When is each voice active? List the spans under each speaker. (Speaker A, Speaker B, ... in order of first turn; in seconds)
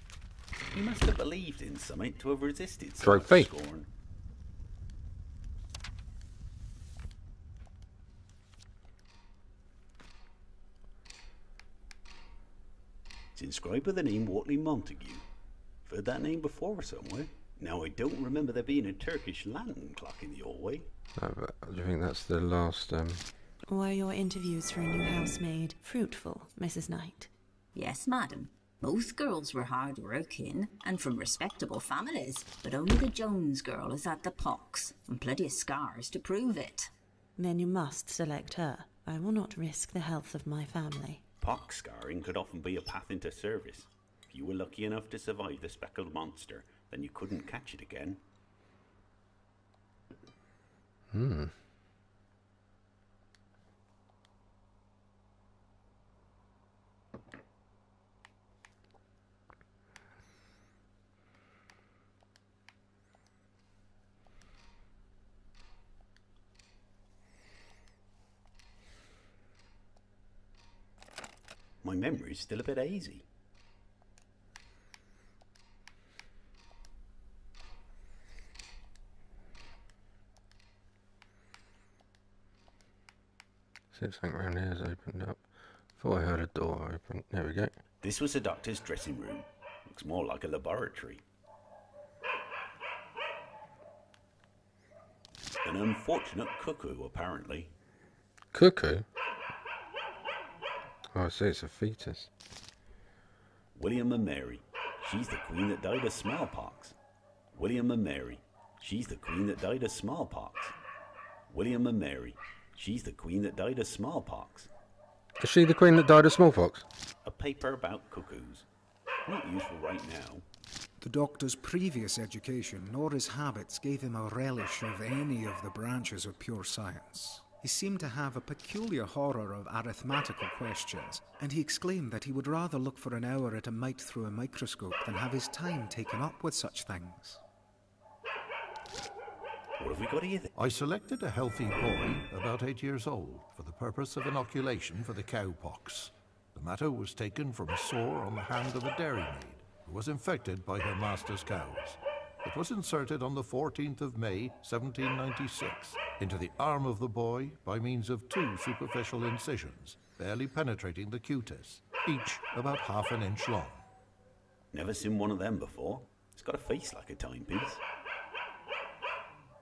Speaker A: 0.7-3.9, 13.3-15.2, 15.9-20.9, 41.4-48.2, 71.8-73.2, 88.0-91.2, 95.6-97.7, 103.8-107.0, 107.5-110.8, 111.5-114.7, 117.2-118.7, 119.3-120.4, 139.8-140.5, 164.7-167.8
Speaker B: 3.0-3.5, 21.2-23.2, 51.1-51.5, 83.9-85.4, 86.0-87.7, 98.5-99.0, 101.1-102.3, 115.4-116.9
Speaker C: 23.7-27.3, 37.4-41.2
Speaker D: 27.8-36.9
Speaker E: 121.0-137.4
Speaker F: 140.6-163.8